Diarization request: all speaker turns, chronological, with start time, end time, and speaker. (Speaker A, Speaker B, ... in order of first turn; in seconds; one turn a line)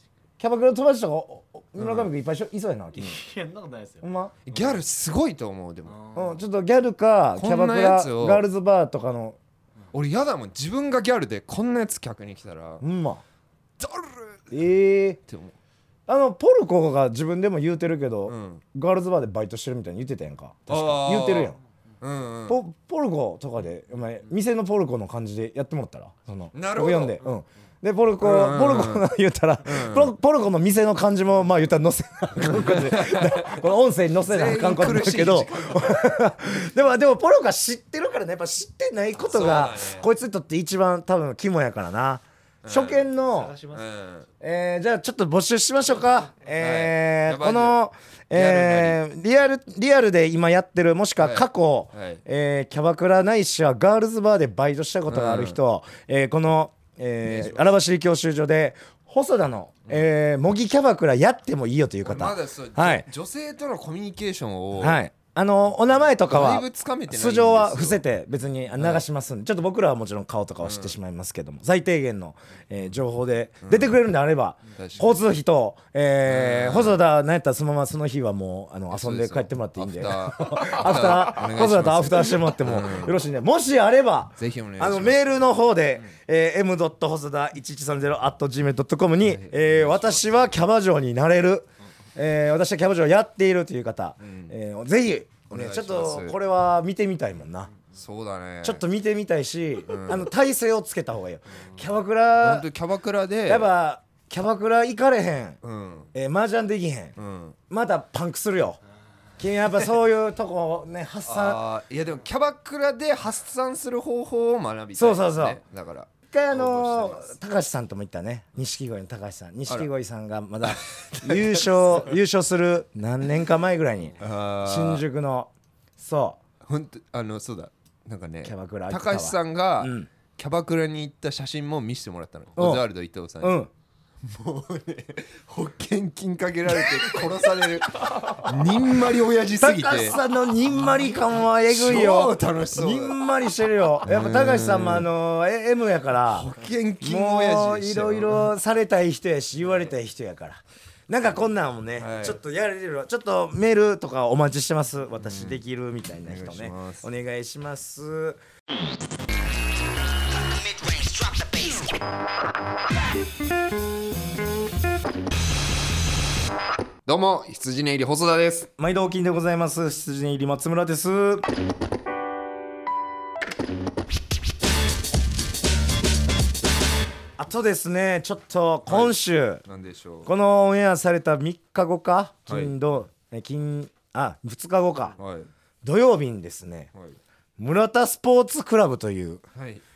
Speaker A: 0.4-3.2
Speaker B: 1.8-2.1
Speaker C: 3.0-4.8
Speaker A: 4.0-4.3
Speaker B: 4.5-6.1
Speaker C: 5.9-6.4
Speaker A: 6.2-9.4
Speaker B: 7.4-8.4
Speaker B: 9.9-12.8
Speaker A: 12.8-13.2
Speaker B: 13.8-14.5
Speaker A: 14.5-15.2
Speaker B: 15.3-15.6
Speaker A: 16.1-21.6
Speaker B: 18.3-18.6
Speaker B: 20.7-22.6
Speaker A: 22.5-43.6
Speaker B: 26.5-27.3
Speaker B: 28.2-29.1
Speaker B: 29.7-30.1
Speaker B: 32.4-33.6
Speaker B: 34.2-36.2
Speaker B: 39.2-40.1
Speaker B: 42.6-43.1
Speaker C: 43.3-43.8
Speaker B: 43.7-44.3
Speaker A: 44.4-63.1
Speaker B: 46.6-47.8
Speaker B: 48.3-49.0
Speaker B: 51.2-52.2
Speaker B: 55.1-55.6
Speaker B: 57.2-57.7
Speaker B: 62.0-65.0
Speaker A: 64.8-97.7
Speaker B: 66.2-68.0
Speaker B: 68.8-69.0
Speaker B: 70.6-70.9
Speaker B: 73.6-74.0
Speaker B: 74.7-75.2
Speaker B: 76.3-77.0
Speaker B: 78.9-83.2
Speaker B: 84.4-85.2
Speaker B: 89.2-90.6
Speaker B: 94.2-94.5
Speaker B: 95.5-96.4
Speaker B: 97.9-98.8
Speaker A: 98.6-102.7
Speaker B: 99.9-100.3
Speaker B: 102.4-103.7
Speaker A: 103.5-105.6
Speaker B: 105.6-106.1
Speaker A: 106.1-107.2
Speaker B: 107.2-107.6
Speaker A: 107.7-108.8
Speaker A: 109.4-111.6
Speaker B: 111.2-117.3
Speaker A: 115.0-115.6
Speaker A: 116.3-126.4
Speaker B: 120.7-121.7
Speaker B: 124.2-125.0
Speaker B: 126.7-133.6
Speaker A: 128.4-130.1
Speaker A: 132.6-132.8
Speaker A: 133.4-133.7
Speaker B: 134.2-140.2
Speaker A: 139.6-158.4
Speaker B: 140.9-143.2
Speaker B: 144.1-145.1
Speaker B: 146.3-148.5
Speaker B: 152.0-152.4
Speaker B: 155.2-155.6
Speaker B: 156.3-157.1
Speaker A: 160.8-161.6
Speaker B: 167.1-168.7
Speaker A: 168.8-171.5
Speaker A: 177.4-179.6
Speaker B: 178.9-180.3
Speaker A: 180.3-185.2
Speaker B: 182.5-182.8
Speaker B: 185.2-185.5
Speaker A: 185.8-186.9
Speaker A: 187.6-189.4
Speaker B: 189.6-189.8